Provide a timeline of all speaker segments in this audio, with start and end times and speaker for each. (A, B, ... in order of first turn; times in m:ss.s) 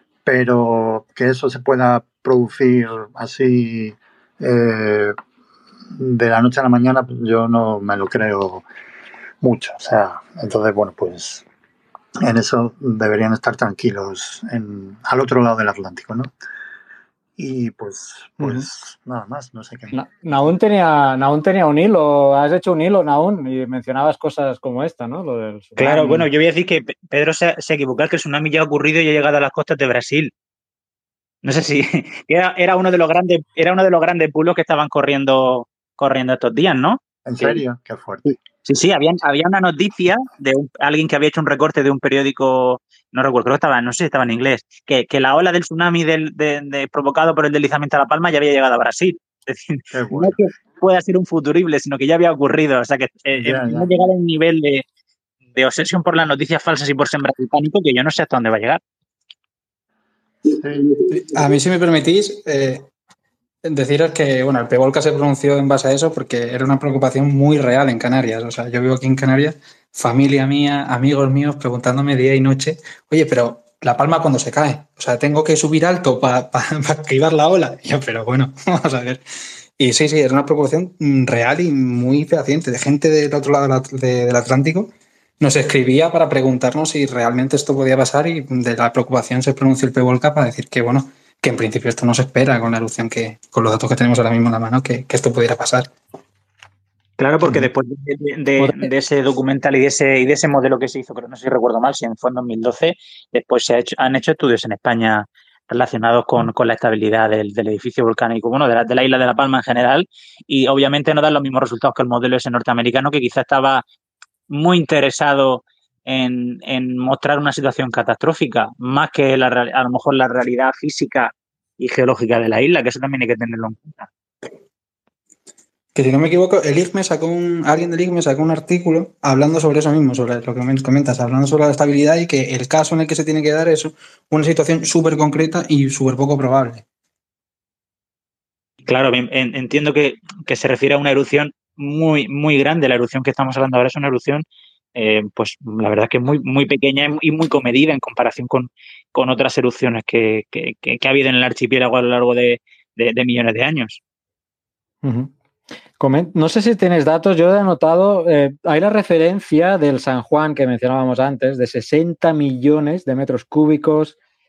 0:00.2-0:05.2 A
0:05.9-0:08.6 A
0:09.4-0:11.4 A
0:12.2-0:16.3 A
0:17.4-0:20.0 A
0:18.4-0:18.7 B
0:19.9-0:26.3 B
0:25.8-0:30.3 C
0:31.4-0:37.6 C
0:37.3-0:38.3 A
0:38.6-0:54.8 C
0:49.9-0:50.4 A
0:53.3-0:53.9 A
0:55.5-0:58.8 C
1:00.6-1:01.1 A
1:01.2-1:02.9 D
1:03.6-1:19.2 D
1:19.8-1:35.9 D
1:37.2-1:53.8 C
1:37.4-1:37.7 B
1:54.5-2:04.1 C
2:05.9-2:16.8 D
2:18.9-2:34.0 C
2:35.0-2:35.3 B
2:36.0-2:44.2 B